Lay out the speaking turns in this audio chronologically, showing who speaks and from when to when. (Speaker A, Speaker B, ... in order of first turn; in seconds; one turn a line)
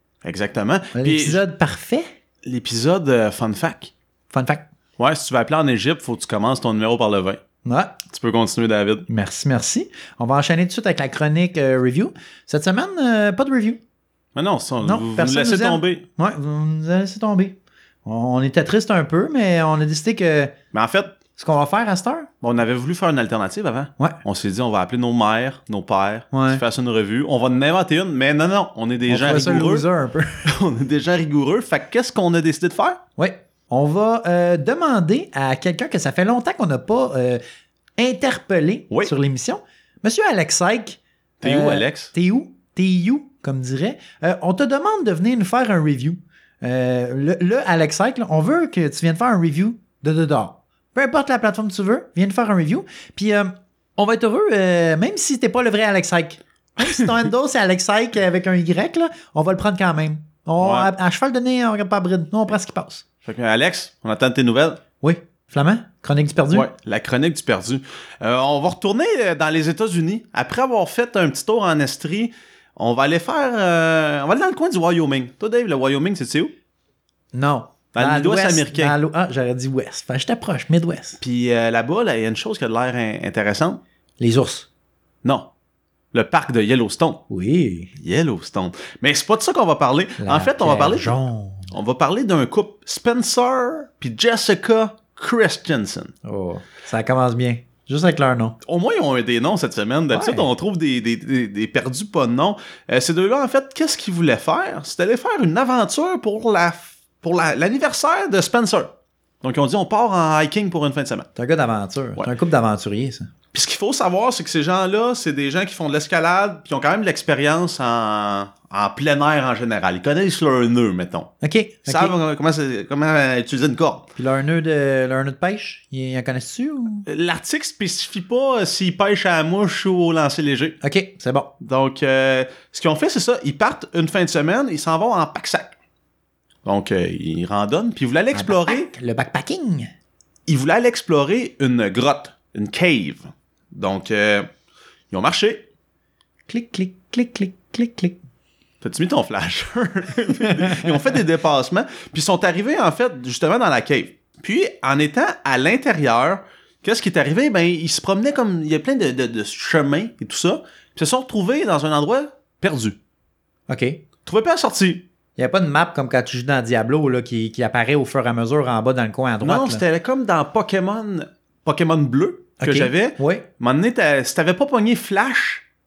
Speaker A: 0.2-1.4
Speaker B: 0.9-2.1
Speaker A: 2.5-3.9
Speaker B: 4.3-4.7
Speaker A: 5.0-7.4
Speaker B: 7.7-8.0
Speaker A: 8.1-9.1
Speaker B: 9.1-13.8
Speaker A: 14.3-16.0
Speaker B: 14.8-20.5
Speaker A: 20.7-21.1
Speaker B: 21.4-22.3
Speaker A: 22.4-29.9
Speaker B: 26.3-26.6
Speaker B: 29.1-30.4
Speaker A: 30.4-33.0
Speaker B: 33.2-37.4
Speaker B: 38.0-63.0
Speaker A: 41.4-42.1
Speaker A: 60.6-60.9
Speaker A: 63.2-64.8
Speaker B: 65.0-66.7
Speaker A: 66.5-76.5
Speaker B: 77.3-81.2
Speaker A: 77.9-79.0
Speaker A: 81.2-83.8
Speaker B: 84.2-84.7
Speaker A: 85.2-85.5
Speaker A: 86.1-87.2
Speaker B: 87.3-87.9
Speaker A: 88.0-91.2
Speaker B: 90.2-91.7
Speaker A: 91.7-96.1
Speaker B: 96.2-98.6
Speaker A: 98.6-111.3
Speaker B: 100.1-100.5
Speaker B: 111.4-113.3
Speaker A: 113.5-121.3
Speaker B: 121.4-122.1
Speaker A: 121.8-124.1
Speaker B: 124.2-127.1
Speaker A: 127.1-130.8
Speaker B: 130.8-131.5
Speaker A: 131.6-135.8
Speaker A: 136.6-138.9
Speaker B: 138.3-139.9
Speaker A: 140.5-144.5
Speaker A: 145.1-145.6
Speaker B: 146.5-148.2
Speaker A: 148.8-163.0
Speaker B: 163.7-164.0
Speaker A: 164.2-165.1
Speaker B: 165.4-169.8
Speaker A: 169.4-175.6
Speaker B: 172.6-173.5